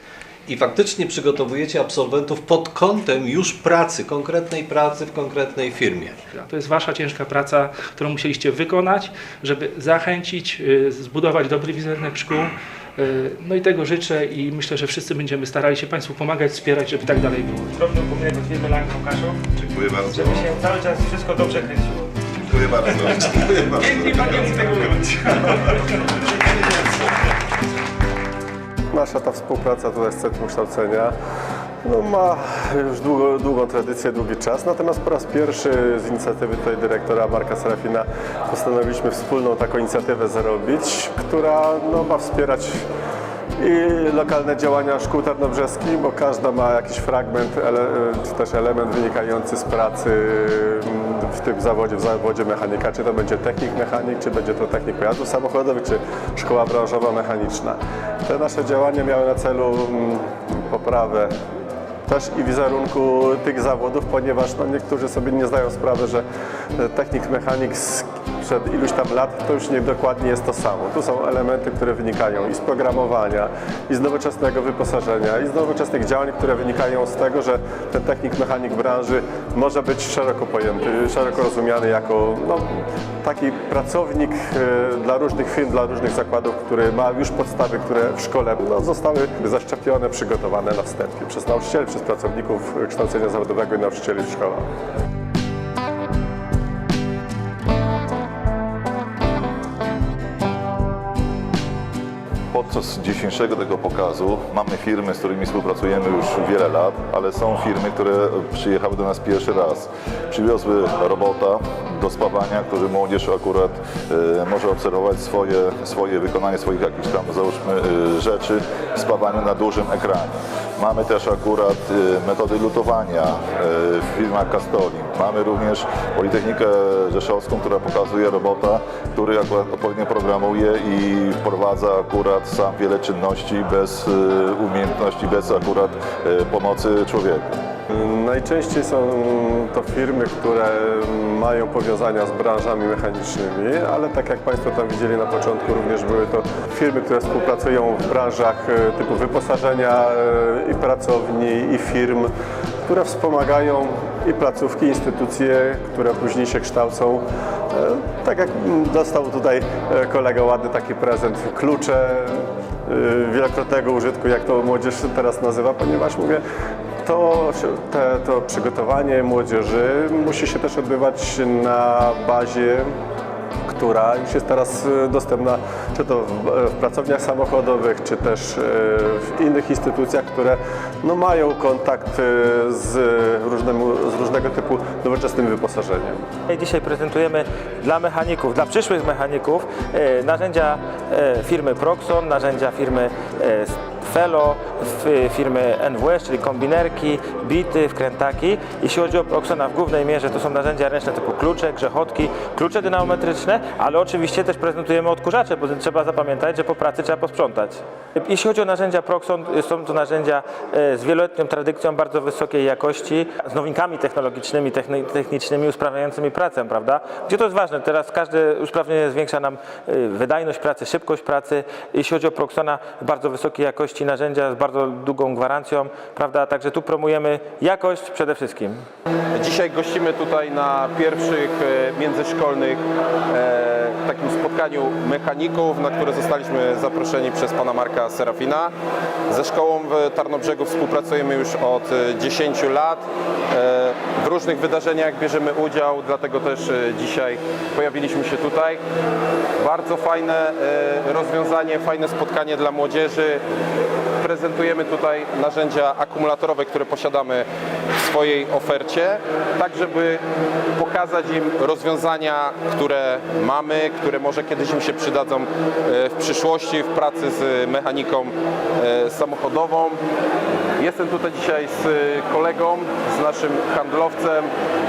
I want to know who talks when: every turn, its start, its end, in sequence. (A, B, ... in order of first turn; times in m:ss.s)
0:00.5-0:06.2 A
0:06.3-0:17.8 B
0:17.8-0:19.4 C
0:19.5-0:20.5 D
0:20.6-0:22.0 C
0:22.3-0:24.8 D
0:23.9-0:24.7 B
0:28.9-0:31.1 E
0:31.8-0:42.8 E
0:43.6-1:01.3 E
1:02.1-1:06.2 E
1:06.8-1:34.7 E
1:42.5-2:17.5 D
2:17.9-2:32.3 E
2:32.8-2:46.4 E
2:47.0-2:52.9 E
2:53.7-3:06.2 E
3:06.5-3:48.8 C
3:49.4-3:58.7 F
3:59.3-4:08.8 F
4:09.6-4:13.4 F
4:14.2-4:17.5 F
4:18.0-4:20.2 F
4:20.8-4:30.0 F
4:30.8-4:34.5 F